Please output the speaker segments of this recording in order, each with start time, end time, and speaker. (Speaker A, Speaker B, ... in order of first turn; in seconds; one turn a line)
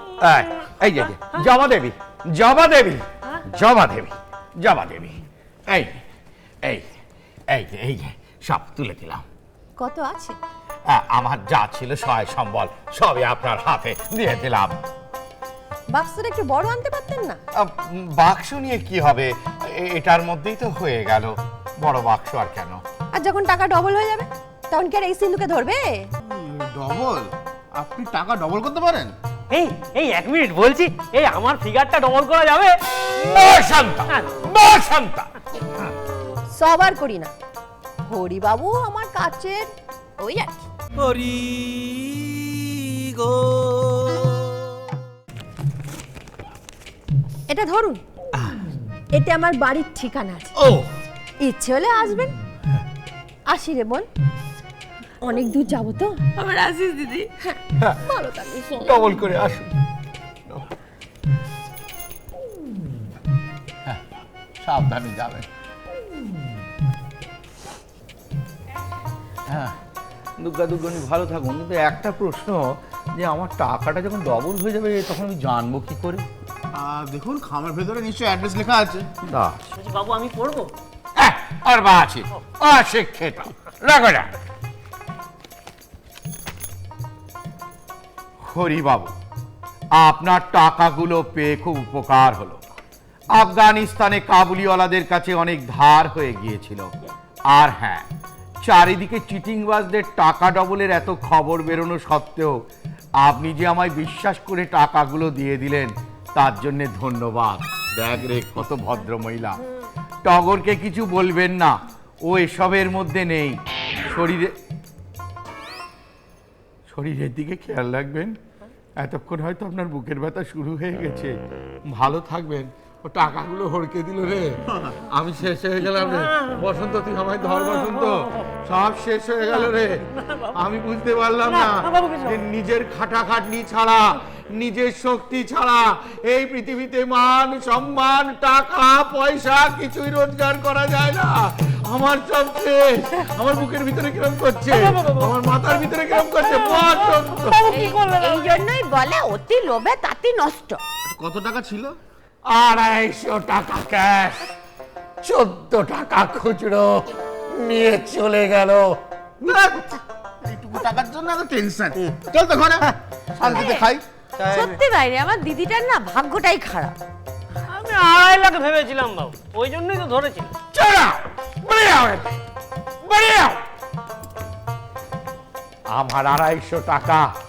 Speaker A: 0.2-6.0
Speaker A: 6.6-6.9
Speaker A: 7.5-9.2
Speaker B: 9.8-10.4
Speaker A: 10.8-14.8
Speaker B: 15.9-17.4
Speaker A: 17.5-22.8
Speaker B: 23.1-26.1
Speaker C: 26.2-29.1
Speaker D: 29.5-32.8
Speaker A: 33.1-35.3
Speaker D: 34.1-34.3
Speaker B: 36.5-37.3
Speaker B: 38.0-40.7
Speaker B: 47.5-48.0
Speaker B: 49.1-50.5
Speaker A: 50.6-50.9
Speaker B: 51.4-52.4
Speaker B: 53.5-54.1
Speaker B: 55.2-56.2
Speaker E: 56.4-57.3
Speaker B: 57.4-59.1
Speaker A: 58.8-59.7
Speaker A: 63.8-65.5
Speaker A: 69.5-69.8
Speaker A: 70.4-76.3
Speaker C: 76.7-79.1
Speaker A: 79.2-79.6
Speaker D: 79.8-80.7
Speaker A: 81.2-84.3
Speaker A: 88.4-89.1
Speaker A: 89.9-92.6
Speaker A: 93.3-96.9
Speaker A: 97.5-98.1
Speaker A: 98.6-102.6
Speaker A: 103.2-109.6
Speaker A: 110.2-114.6
Speaker A: 116.9-118.4
Speaker A: 119.0-121.3
Speaker A: 121.9-147.6
Speaker D: 126.1-126.5
Speaker D: 127.6-128.5
Speaker D: 129.5-130.6
Speaker D: 131.5-132.4
Speaker D: 144.7-145.3
Speaker D: 146.2-148.6
Speaker E: 147.7-150.8
Speaker C: 151.0-151.9
Speaker A: 152.4-154.5
Speaker A: 155.2-159.0
Speaker C: 159.4-164.8
Speaker E: 163.4-163.8
Speaker E: 164.4-167.0
Speaker D: 167.7-170.5
Speaker A: 170.7-172.4
Speaker A: 173.0-173.6
Speaker A: 175.9-177.3